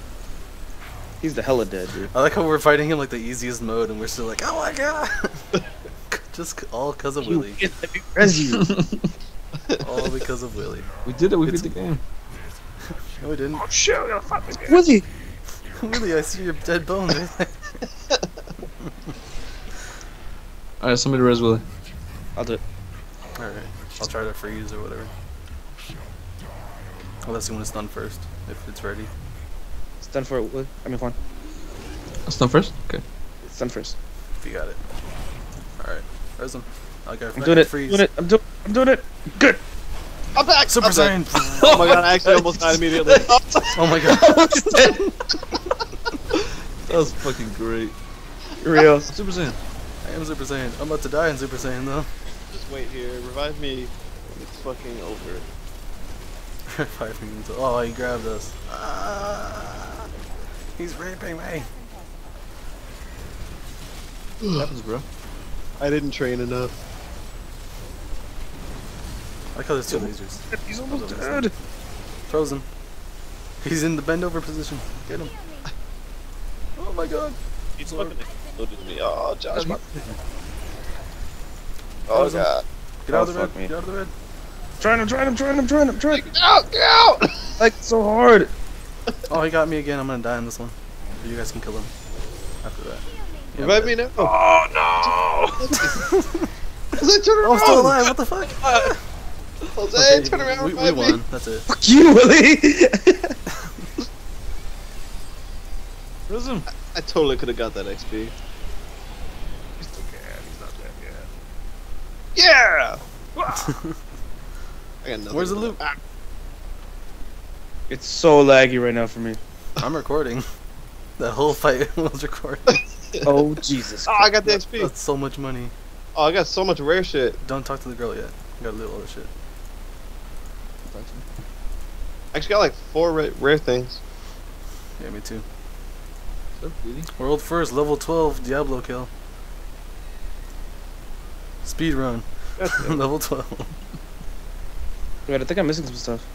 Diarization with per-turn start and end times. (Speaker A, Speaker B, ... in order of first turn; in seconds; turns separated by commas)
Speaker A: 1.2-2.1, Speaker B: 2.1-5.5, Speaker B: 6.1-7.6, Speaker A: 7.2-8.7, Speaker C: 8.6-9.0, Speaker B: 9.8-10.9, Speaker C: 11.1-12.0, Speaker B: 12.9-13.6, Speaker C: 13.6-14.8, Speaker A: 14.7-15.1, Speaker B: 15.7-17.8, Speaker B: 18.8-19.1, Speaker C: 20.8-21.6, Speaker A: 22.4-22.6, Speaker B: 23.4-25.1, Speaker B: 27.2-29.1, Speaker A: 30.0-31.1, Speaker C: 32.3-33.0, Speaker A: 33.4-33.9, Speaker B: 34.4-34.8, Speaker B: 35.8-38.0, Speaker A: 37.3-39.6, Speaker D: 40.3-43.7, Speaker B: 40.7-42.0, Speaker C: 41.4-43.6, Speaker B: 43.7-45.0, Speaker A: 43.9-45.0, Speaker C: 46.3-47.9, Speaker A: 48.6-49.1, Speaker C: 49.1-49.6, Speaker B: 50.0-52.1, Speaker D: 52.5-55.5, Speaker B: 56.7-60.1, Speaker B: 60.7-61.7, Speaker D: 64.4-64.7, Speaker C: 64.5-65.0, Speaker D: 65.8-66.7, Speaker B: 69.5-71.5, Speaker A: 69.9-71.5, Speaker B: 72.3-72.7, Speaker B: 73.6-75.3, Speaker B: 76.8-78.2, Speaker D: 77.8-79.8, Speaker C: 79.5-80.2, Speaker B: 82.1-82.5, Speaker D: 82.1-82.6, Speaker B: 83.0-84.1, Speaker A: 83.1-83.7, Speaker A: 84.8-86.2, Speaker D: 86.1-87.6, Speaker A: 87.6-88.5, Speaker B: 89.3-91.9, Speaker B: 92.6-94.0, Speaker D: 93.6-94.3, Speaker C: 94.2-96.0, Speaker D: 95.6-95.9, Speaker B: 96.1-96.5, Speaker D: 96.9-98.1, Speaker B: 97.4-99.0, Speaker C: 98.4-98.9, Speaker D: 99.7-101.2, Speaker B: 99.9-101.7, Speaker A: 101.7-103.3, Speaker B: 103.5-103.8, Speaker C: 106.3-106.7, Speaker D: 106.7-108.3, Speaker C: 109.8-111.2, Speaker D: 112.3-113.0, Speaker C: 113.3-113.7, Speaker B: 113.6-114.0, Speaker D: 115.0-116.0, Speaker B: 115.3-115.8, Speaker A: 117.9-119.4, Speaker B: 119.8-120.4, Speaker B: 121.2-122.8, Speaker D: 122.7-123.2, Speaker A: 123.2-124.3, Speaker D: 124.0-124.9, Speaker B: 124.4-125.7, Speaker D: 126.1-127.4, Speaker B: 127.4-129.3, Speaker C: 130.8-131.2, Speaker D: 132.3-134.0, Speaker B: 135.0-135.4, Speaker C: 136.6-137.1, Speaker B: 137.1-139.1, Speaker B: 141.6-143.7, Speaker D: 142.6-143.0, Speaker A: 145.2-146.2